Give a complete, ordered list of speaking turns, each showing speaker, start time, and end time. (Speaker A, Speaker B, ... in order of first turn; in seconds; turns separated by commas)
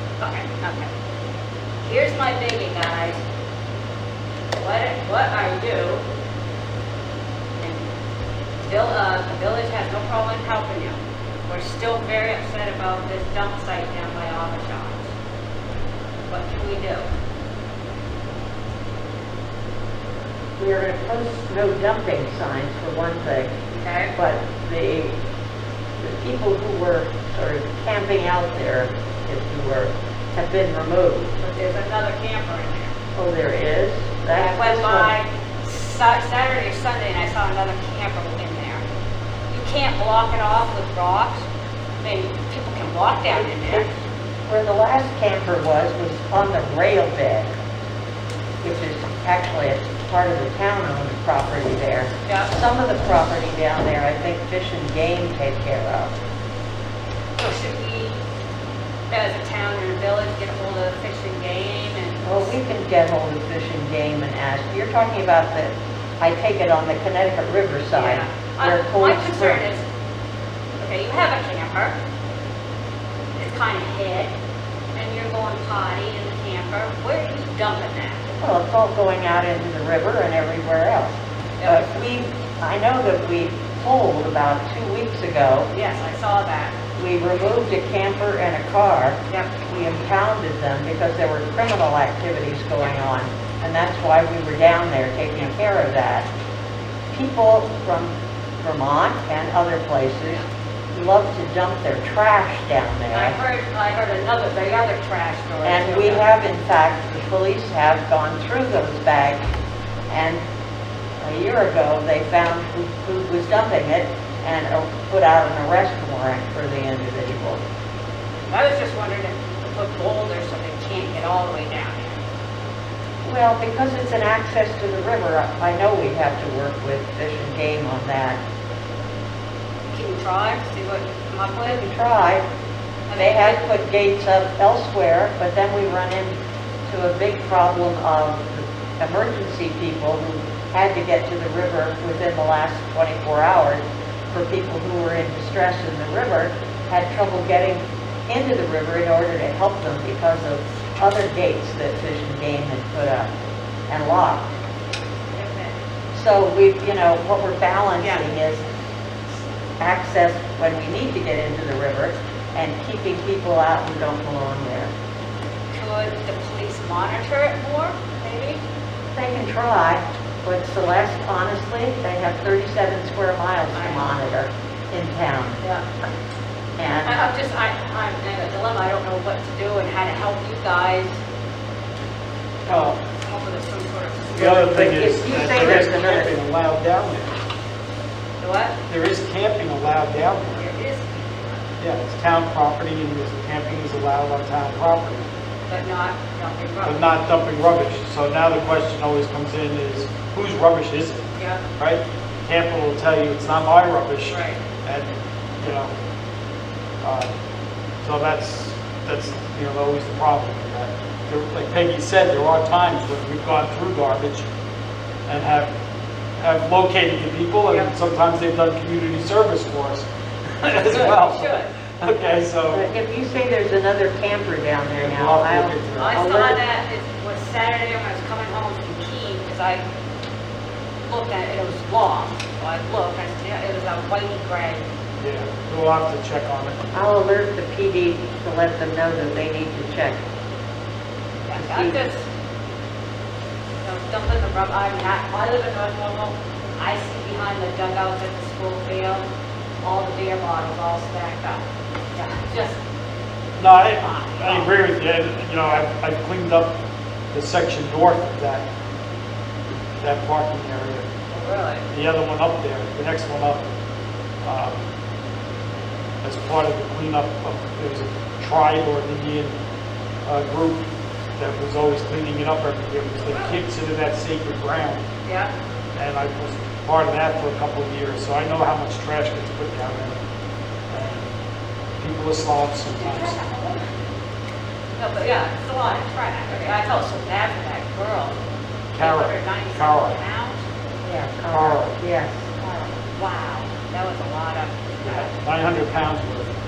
Speaker A: 0.2-0.9, Speaker A: 1.8-3.2, Speaker A: 4.5-6.0, Speaker A: 8.6-15.1, Speaker A: 16.3-17.1, Speaker B: 20.6-23.5, Speaker A: 23.7-24.1, Speaker B: 24.2-25.2, Speaker B: 26.0-31.3, Speaker A: 31.4-32.9, Speaker B: 33.2-35.1, Speaker A: 34.3-38.8, Speaker A: 39.5-41.5, Speaker A: 42.0-43.9, Speaker B: 43.3-43.9, Speaker B: 44.5-47.5, Speaker B: 48.6-56.1, Speaker A: 52.3-52.5, Speaker A: 57.4-58.2, Speaker A: 59.1-62.5, Speaker B: 62.2-69.6, Speaker A: 67.9-69.8, Speaker A: 70.8-71.9, Speaker A: 73.4-74.3, Speaker A: 75.0-78.2, Speaker B: 78.4-85.7, Speaker A: 81.6-82.0, Speaker A: 85.7-86.8, Speaker B: 87.0-96.3, Speaker A: 89.3-89.6, Speaker B: 97.1-100.4, Speaker B: 100.9-103.4, Speaker A: 103.1-106.3, Speaker B: 105.6-109.5, Speaker B: 110.1-110.4, Speaker B: 111.2-117.6, Speaker A: 118.5-122.2, Speaker B: 123.2-128.4, Speaker A: 129.9-131.8, Speaker B: 131.6-132.4, Speaker A: 133.1-133.6, Speaker B: 133.2-153.3, Speaker B: 153.9-154.5, Speaker A: 155.3-155.8, Speaker B: 156.1-158.6, Speaker A: 158.0-158.3, Speaker B: 159.8-164.9, Speaker A: 165.7-168.6, Speaker B: 169.2-175.6, Speaker A: 173.8-174.1, Speaker B: 176.8-177.2, Speaker A: 177.1-181.2, Speaker C: 182.7-183.0, Speaker A: 182.7-184.8, Speaker C: 184.3-187.4, Speaker B: 184.6-186.3, Speaker A: 188.4-188.8, Speaker C: 188.9-190.7, Speaker A: 190.5-191.7, Speaker C: 191.8-195.3, Speaker A: 195.7-197.0, Speaker C: 196.8-201.2, Speaker C: 201.8-205.9, Speaker A: 204.3-204.6, Speaker C: 207.0-207.3, Speaker C: 208.0-214.4, Speaker C: 215.3-215.7, Speaker C: 216.4-220.1, Speaker C: 220.6-222.8, Speaker A: 220.9-221.7, Speaker B: 222.7-226.6, Speaker C: 224.9-226.2, Speaker A: 226.0-229.8, Speaker A: 231.1-234.9, Speaker C: 235.2-236.8, Speaker B: 236.9-240.2, Speaker A: 241.5-242.3, Speaker B: 241.6-242.0, Speaker A: 243.8-249.3, Speaker A: 249.8-251.6, Speaker A: 252.1-252.8, Speaker C: 253.6-256.7, Speaker A: 254.0-254.7, Speaker C: 257.3-258.6, Speaker C: 260.0-261.1, Speaker A: 261.3-261.9, Speaker C: 261.9-263.6, Speaker C: 264.4-264.8, Speaker C: 266.2-269.6, Speaker C: 270.2-270.9, Speaker C: 271.4-275.0, Speaker A: 273.3-273.6, Speaker A: 275.2-275.5, Speaker C: 276.0-280.2, Speaker C: 280.9-281.3, Speaker C: 282.0-283.4, Speaker A: 283.0-283.9, Speaker A: 285.0-288.3, Speaker C: 288.9-290.2, Speaker A: 289.0-290.6, Speaker B: 291.0-292.6, Speaker C: 291.5-292.0, Speaker A: 292.6-295.3, Speaker C: 295.0-296.5